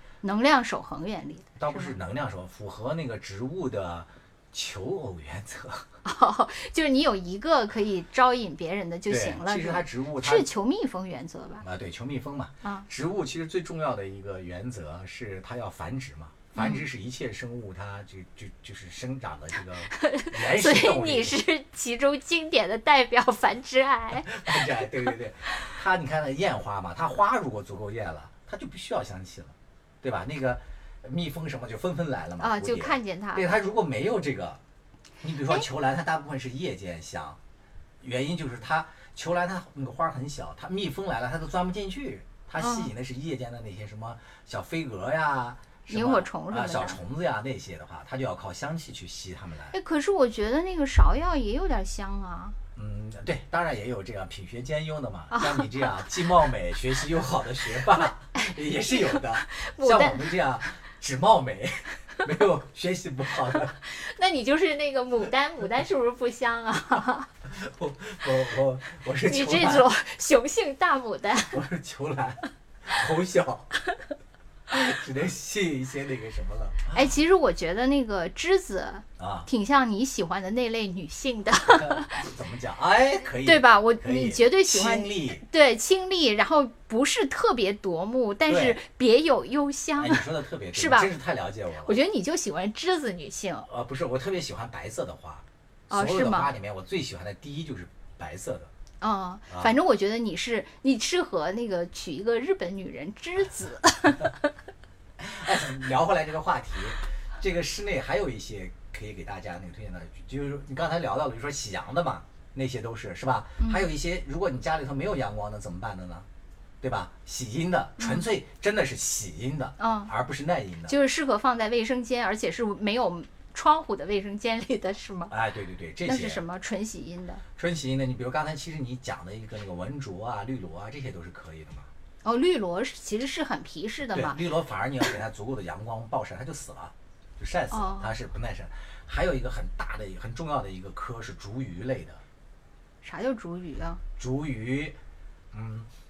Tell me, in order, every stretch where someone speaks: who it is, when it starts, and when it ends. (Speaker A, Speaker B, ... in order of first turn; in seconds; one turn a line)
Speaker A: 0.2-1.9
Speaker B: 1.6-5.9
Speaker A: 6.0-11.6
Speaker B: 9.1-10.5
Speaker B: 11.6-21.4
Speaker A: 16.5-16.8
Speaker A: 19.9-25.1
Speaker B: 24.3-34.6
Speaker A: 32.4-33.5
Speaker B: 35.2-37.4
Speaker B: 38.0-49.8
Speaker A: 42.6-42.9
Speaker A: 45.9-47.0
Speaker A: 49.7-52.6
Speaker B: 52.7-63.7
Speaker A: 55.3-55.9
Speaker A: 58.4-60.3
Speaker A: 63.8-67.3
Speaker B: 67.5-69.9
Speaker A: 69.2-71.6
Speaker B: 71.5-73.7
Speaker B: 74.7-77.1
Speaker A: 76.9-82.2
Speaker B: 79.2-79.5
Speaker B: 81.6-85.4
Speaker A: 83.4-91.1
Speaker B: 88.5-88.8
Speaker B: 90.0-92.0
Speaker A: 91.8-93.7
Speaker B: 93.7-98.7
Speaker A: 95.9-96.5
Speaker A: 99.0-104.5
Speaker B: 105.2-116.3
Speaker A: 113.6-113.9
Speaker B: 116.8-120.9
Speaker A: 119.8-120.1
Speaker A: 120.9-125.3
Speaker B: 125.3-126.4
Speaker A: 126.0-127.4
Speaker B: 127.5-131.9
Speaker A: 132.2-134.4
Speaker B: 134.1-142.2
Speaker A: 137.7-138.1
Speaker A: 143.0-144.0
Speaker B: 144.2-145.0
Speaker B: 145.5-145.9